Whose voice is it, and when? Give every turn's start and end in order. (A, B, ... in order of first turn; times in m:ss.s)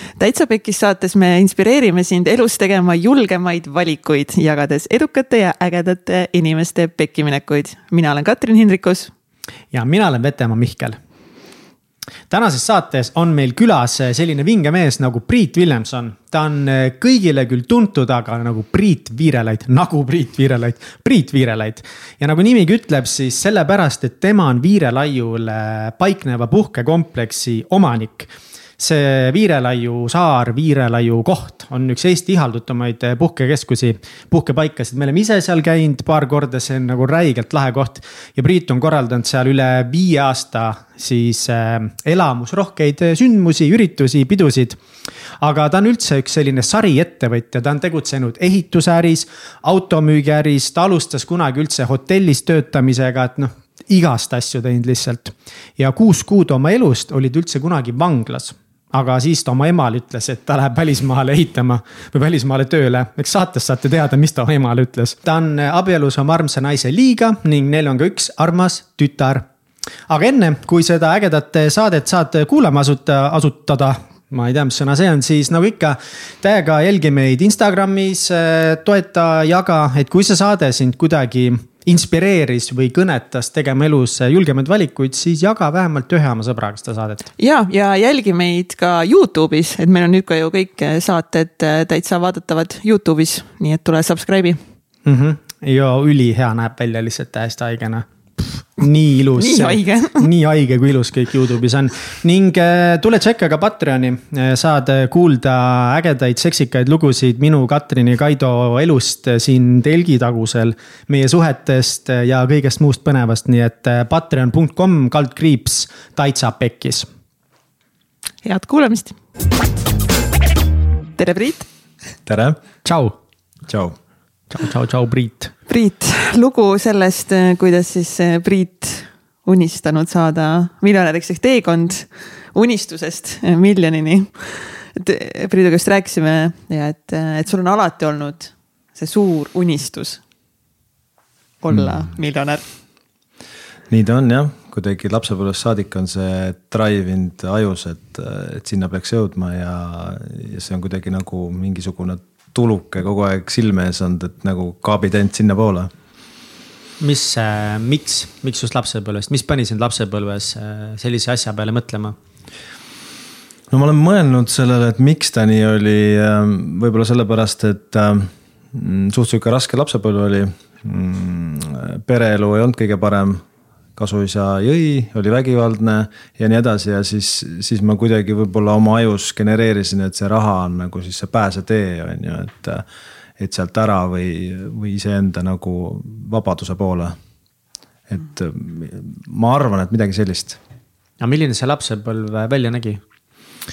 0:00.2-0:09.1 A
0:09.7-0:11.0 B
0:12.3-0:44.8 B
0:45.4-1:09.4 B
1:10.1-1:27.3 B
1:27.4-1:34.6 A
1:35.0-1:57.1 B
1:39.4-1:40.3 A
1:58.4-1:59.2 A
2:01.2-2:01.7 A
2:02.2-2:02.6 C
2:02.8-2:03.2 B
2:03.7-2:04.0 C
2:04.5-2:05.5 B
2:05.7-2:20.2 A
2:21.6-2:22.6 A
2:21.7-2:22.1 C
2:23.9-2:35.9 C
2:37.0-2:42.2 B
2:43.7-2:53.4 C
2:54.0-3:02.8 C
3:03.4-3:07.1 C
3:08.1-3:10.6 C
3:11.2-3:13.0 B